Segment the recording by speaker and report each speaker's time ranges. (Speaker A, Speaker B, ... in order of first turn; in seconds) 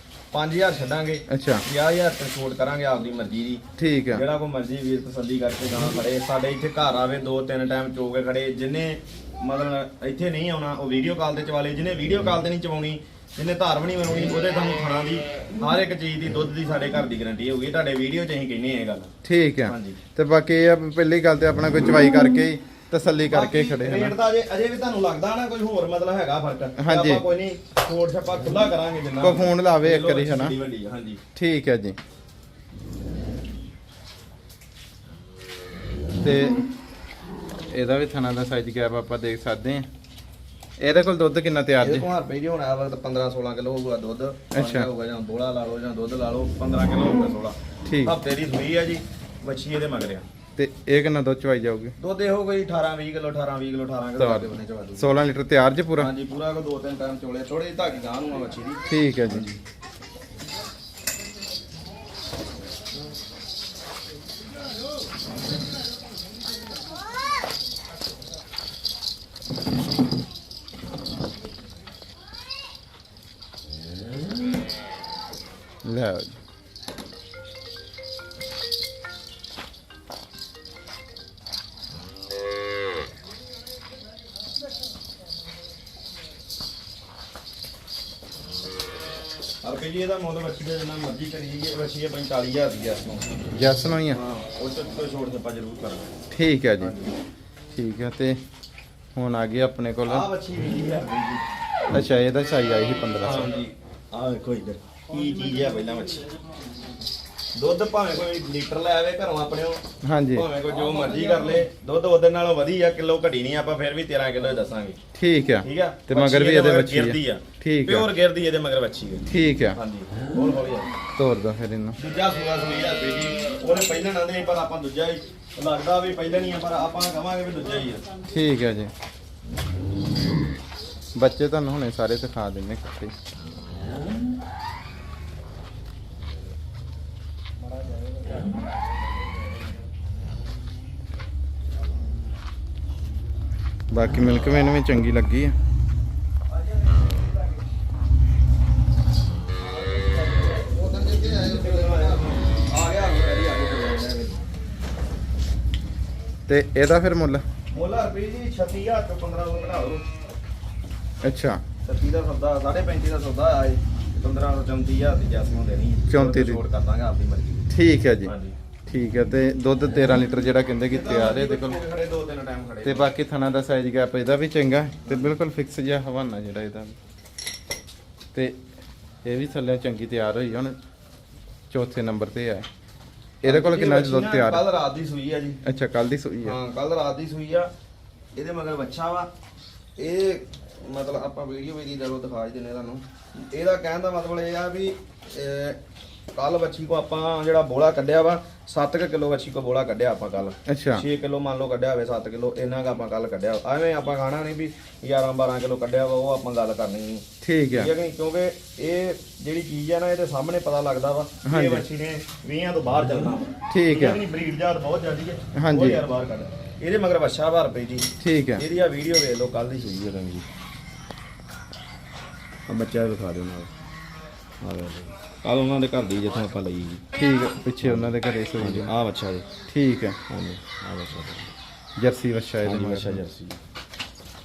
Speaker A: 0.3-3.6, 4.1-19.1, 19.7-20.0, 23.3-31.2, 41.8-50.2, 52.0-55.1, 56.0-59.6, 89.6-93.3, 94.1-96.2, 96.8-97.1, 100.0-101.4, 103.2-106.3, 107.5-109.8, 110.3-115.0, 115.6-120.9, 122.0-128.1, 146.7-147.3, 149.8-154.5, 157.7-160.0, 161.8-167.7, 168.2-168.6, 170.9-173.1, 183.4-185.6, 186.4-187.7, 188.3-189.3, 190.0-195.8, 196.3-220.4, 222.7-223.7, 224.6-227.0, 227.8-229.5, 230.3-231.5, 232.6-233.6
Speaker B: 1.3-1.6, 3.8-4.2, 19.2-24.1, 26.8-27.2, 29.2-30.5, 31.4-32.0, 36.2-36.6, 37.7-39.9, 40.8-42.0, 44.5-44.9, 47.9-48.1, 50.6-51.9, 54.2-56.1, 58.9-59.5, 75.8-76.4, 93.5-94.2, 96.3-96.9, 97.7-98.4, 99.1-100.3, 101.9-103.5, 110.0-110.5, 115.1-118.1, 119.3-119.8, 121.2-122.0, 128.3-128.9, 131.2-133.1, 143.9-145.5, 156.5-157.4, 161.2-161.6, 166.1-166.6, 167.7-168.3, 168.9-171.8, 172.8-176.9, 179.2-180.8, 181.7-182.7, 183.4-184.6, 185.6-186.6, 200.7-201.0, 207.4-207.9, 211.4-211.8, 213.7-214.2, 215.6-216.0, 218.2-218.6, 227.2-228.9, 229.7-230.2, 232.0-233.2